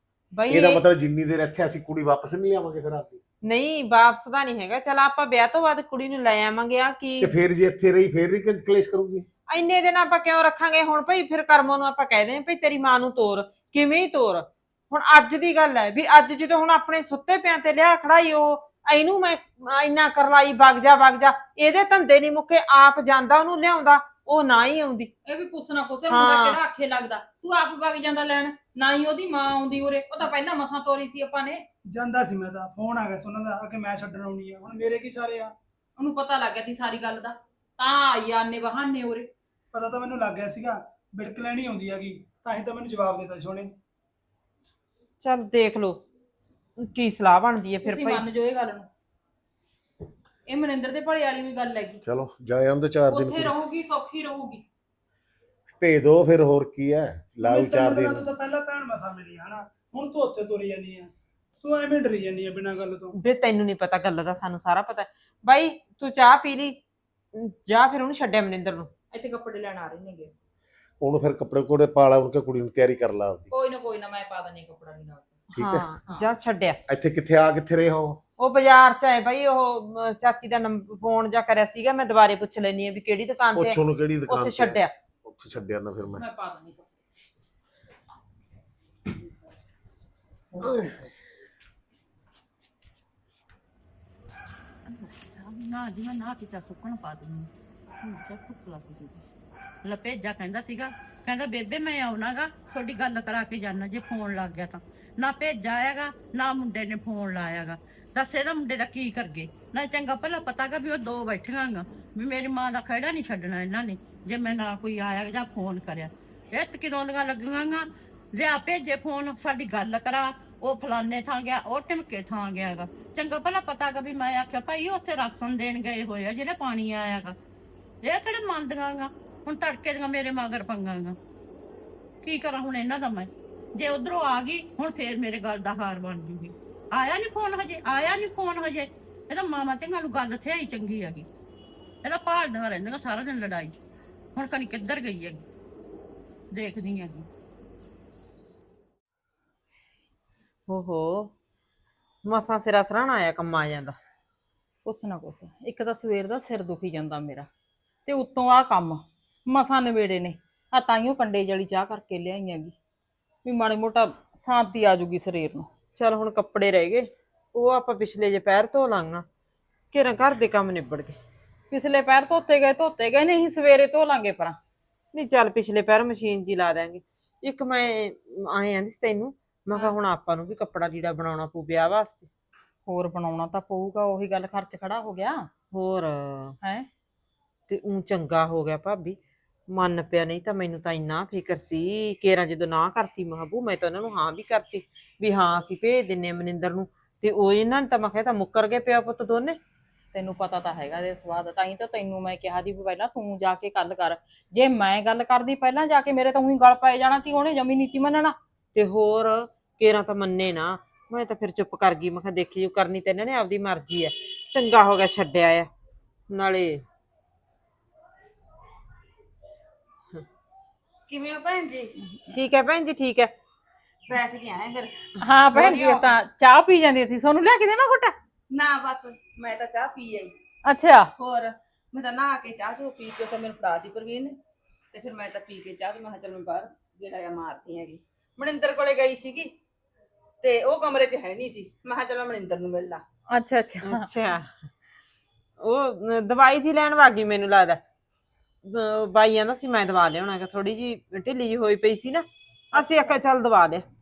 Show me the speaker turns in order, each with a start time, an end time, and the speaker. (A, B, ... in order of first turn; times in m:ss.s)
0:00.3-0:00.8 A
0:00.5-0:03.2 B
0:03.4-0:07.3 A
0:07.2-0:09.3 B
0:09.5-0:25.1 A
0:25.3-0:31.6 C
0:26.1-0:26.6 A
0:31.9-0:35.5 D
0:36.0-0:39.3 C
0:39.7-0:43.7 D
0:45.2-0:46.0 A
0:46.8-0:48.2 A
0:47.8-0:48.9 C
0:50.5-0:52.0 C
0:52.0-0:53.6 B
0:53.1-0:54.6 C
0:55.8-0:58.3 B
0:57.4-1:03.2 D
1:03.2-1:06.8 A
1:07.3-1:08.9 A
1:09.1-1:10.3 C
1:11.0-1:13.5 B
1:13.5-1:15.4 C
1:15.5-1:15.9 B
1:15.5-1:16.8 A
1:16.9-1:18.2 B
1:18.4-1:24.9 A
1:23.6-1:26.2 B
1:26.2-1:26.9 C
1:30.6-1:31.1 B
1:34.8-1:37.5 E
1:38.0-1:39.2 E
1:39.8-2:07.4 E
2:08.0-2:11.2 E
2:12.2-2:21.3 E
2:22.0-2:23.7 E
2:24.4-2:25.4 E
2:26.5-2:27.3 E
2:30.7-2:31.3 A
2:32.2-2:34.0 A
2:34.8-2:37.5 C
2:38.1-2:42.7 C
2:43.4-2:45.7 C
2:46.0-2:49.3 A
2:49.9-2:51.2 A
2:51.7-2:54.6 C
2:55.1-3:02.3 A
3:02.9-3:05.5 C
3:05.7-3:06.6 A
3:06.6-3:06.9 C
3:07.7-3:09.2 A
3:09.7-3:19.6 A
3:20.1-3:28.4 C
3:28.7-3:35.7 A
3:36.3-3:36.8 A
3:41.1-3:42.0 F
3:42.3-3:43.3 A
3:44.1-3:46.2 F
3:45.2-3:48.2 C
3:48.5-3:50.3 F
3:50.7-3:51.1 C
3:51.2-3:54.4 F
3:54.9-3:59.5 F
4:00.4-4:03.0 F
4:03.3-4:04.1 C
4:03.8-4:04.7 A
4:05.6-4:07.8 A
4:08.6-4:13.8 A